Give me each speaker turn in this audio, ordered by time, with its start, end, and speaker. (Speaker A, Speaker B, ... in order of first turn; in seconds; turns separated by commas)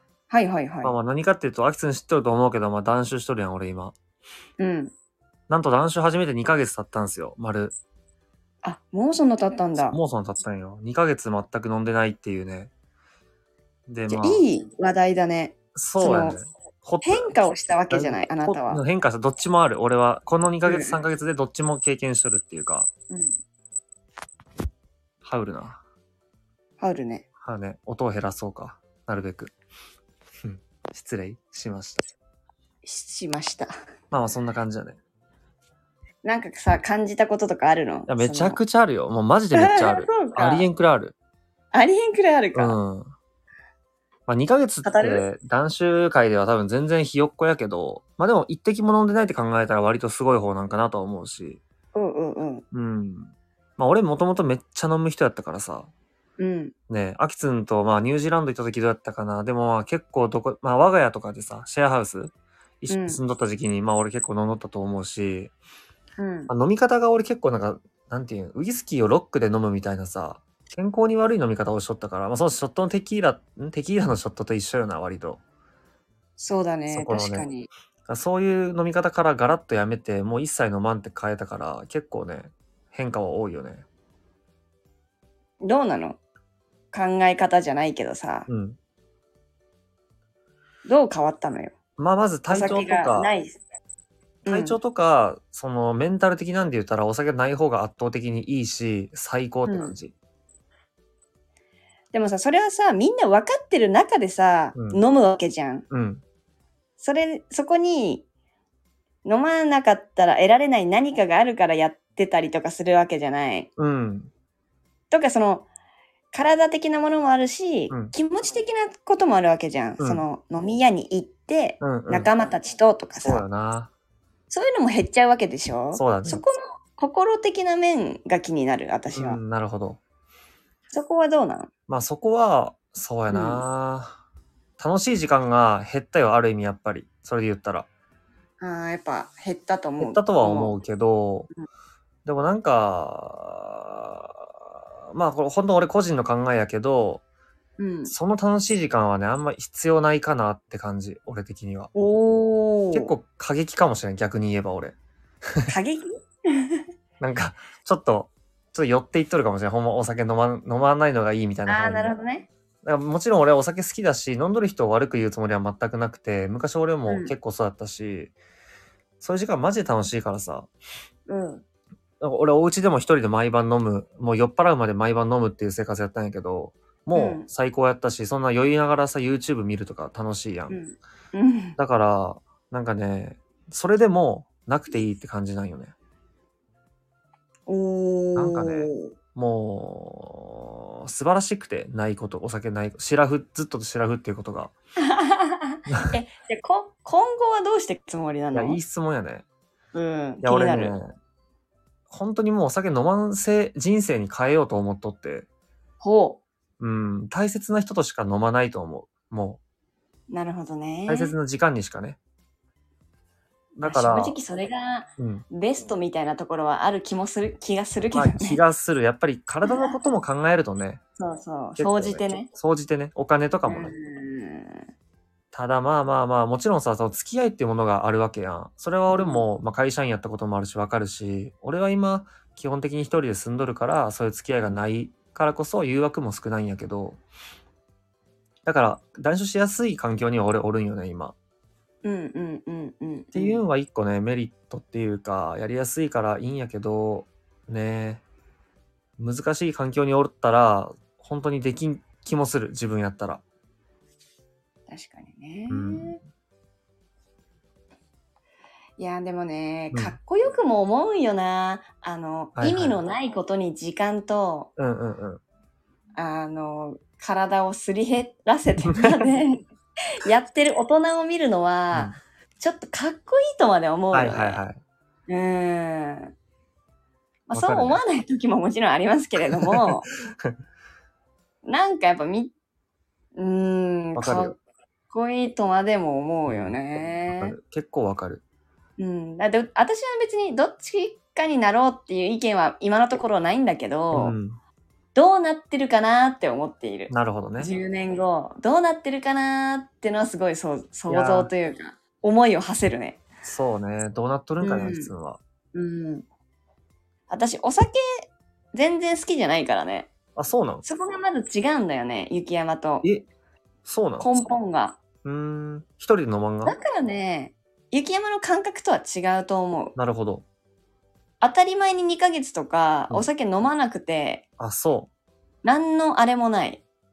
Speaker A: 0.3-0.9, Speaker B: 0.8-3.9, Speaker A: 4.6-4.9, Speaker B: 5.5-7.8, Speaker A: 8.6-10.0, Speaker B: 9.9-12.7, Speaker B: 13.9-14.4, Speaker A: 14.1-16.4, Speaker B: 15.7-17.4, Speaker A: 17.0-18.8, Speaker B: 17.9-22.9, Speaker A: 20.6-21.0, Speaker A: 23.1-23.3, Speaker B: 25.2-25.8, Speaker A: 26.8-27.2, Speaker B: 27.4-29.5, Speaker B: 30.4-32.0, Speaker A: 32.8-33.7, Speaker B: 34.1-35.0, Speaker A: 36.2-38.6, Speaker B: 38.1-41.1, Speaker A: 39.5-40.7, Speaker A: 41.7-42.8, Speaker B: 42.5-43.1, Speaker B: 44.3-51.6, Speaker A: 44.8-45.2, Speaker A: 51.9-52.6, Speaker B: 52.7-55.9, Speaker A: 56.4-56.7, Speaker B: 56.9-65.5, Speaker A: 62.9-63.2, Speaker A: 66.2-66.5, Speaker B: 66.5-75.4, Speaker A: 76.4-77.7, Speaker B: 76.9-77.5, Speaker B: 78.1-83.8, Speaker A: 85.6-86.2, Speaker A: 86.9-88.5, Speaker B: 88.5-88.8, Speaker A: 90.8-91.7, Speaker B: 92.0-93.3, Speaker A: 92.5-93.6, Speaker A: 94.4-94.8, Speaker B: 94.5-100.1, Speaker A: 99.7-99.9, Speaker A: 102.1-105.8, Speaker B: 104.8-105.0, Speaker B: 105.9-106.2, Speaker A: 107.0-108.2, Speaker A: 109.2-113.7, Speaker B: 113.8-114.3, Speaker A: 115.1-115.7, Speaker A: 116.3-123.4, Speaker B: 121.8-122.3, Speaker B: 123.2-123.9, Speaker A: 124.5-129.4, Speaker B: 125.9-126.4, Speaker B: 129.1-130.0, Speaker A: 130.9-131.7, Speaker B: 131.9-134.2, Speaker A: 133.3-133.6, Speaker B: 134.8-137.9, Speaker A: 138.6-140.8, Speaker B: 140.0-141.5, Speaker B: 142.2-147.2, Speaker A: 147.8-148.1, Speaker B: 148.1-151.9, Speaker A: 151.9-153.1, Speaker B: 152.9-154.9, Speaker B: 155.5-155.7, Speaker A: 155.7-156.8, Speaker B: 157.2-162.1, Speaker A: 161.7-162.5, Speaker B: 162.8-168.3, Speaker A: 167.1-167.3, Speaker B: 169.2-170.7, Speaker A: 171.3-171.6, Speaker B: 172.2-180.8, Speaker A: 177.1-177.5, Speaker A: 180.7-181.8, Speaker B: 181.8-185.9, Speaker A: 187.7-189.1, Speaker B: 188.3-194.7, Speaker A: 195.0-198.8, Speaker B: 198.5-199.4, Speaker A: 199.9-201.0, Speaker B: 200.4-201.1, Speaker B: 202.1-205.4, Speaker A: 206.0-206.4, Speaker B: 206.8-209.6, Speaker A: 210.3-211.3, Speaker B: 211.1-212.2, Speaker B: 213.8-214.4, Speaker A: 213.8-218.6, Speaker B: 215.2-215.4, Speaker B: 218.1-221.0, Speaker A: 219.6-220.0, Speaker A: 221.2-222.5, Speaker B: 221.8-223.9, Speaker A: 223.7-224.8, Speaker B: 225.5-237.2, Speaker A: 229.1-229.4, Speaker B: 238.6-241.3, Speaker A: 242.0-243.6, Speaker B: 243.3-248.2, Speaker B: 249.2-253.4, Speaker A: 254.9-256.2, Speaker B: 255.7-256.2, Speaker A: 259.0-264.7, Speaker B: 262.6-263.0, Speaker B: 264.8-265.4, Speaker A: 266.1-269.6, Speaker B: 268.9-269.2, Speaker A: 270.1-274.6, Speaker B: 274.1-274.8, Speaker A: 275.3-276.3, Speaker A: 277.5-280.1, Speaker B: 277.6-278.0, Speaker B: 279.5-279.9, Speaker A: 281.6-282.5, Speaker A: 283.4-284.5, Speaker B: 284.1-284.6, Speaker A: 285.1-287.5, Speaker B: 286.5-288.4, Speaker A: 289.0-294.4, Speaker B: 294.1-294.6, Speaker A: 295.1-303.2, Speaker B: 297.1-297.7, Speaker B: 301.1-301.5, Speaker B: 303.4-305.4, Speaker A: 304.6-305.1, Speaker A: 305.7-306.2, Speaker A: 307.3-310.1, Speaker B: 310.4-310.8, Speaker A: 310.8-313.0, Speaker B: 313.8-314.3, Speaker A: 314.2-315.0, Speaker B: 315.2-316.7, Speaker A: 316.6-319.9, Speaker B: 319.9-320.4, Speaker A: 321.4-324.4, Speaker B: 324.6-325.1, Speaker A: 325.6-326.8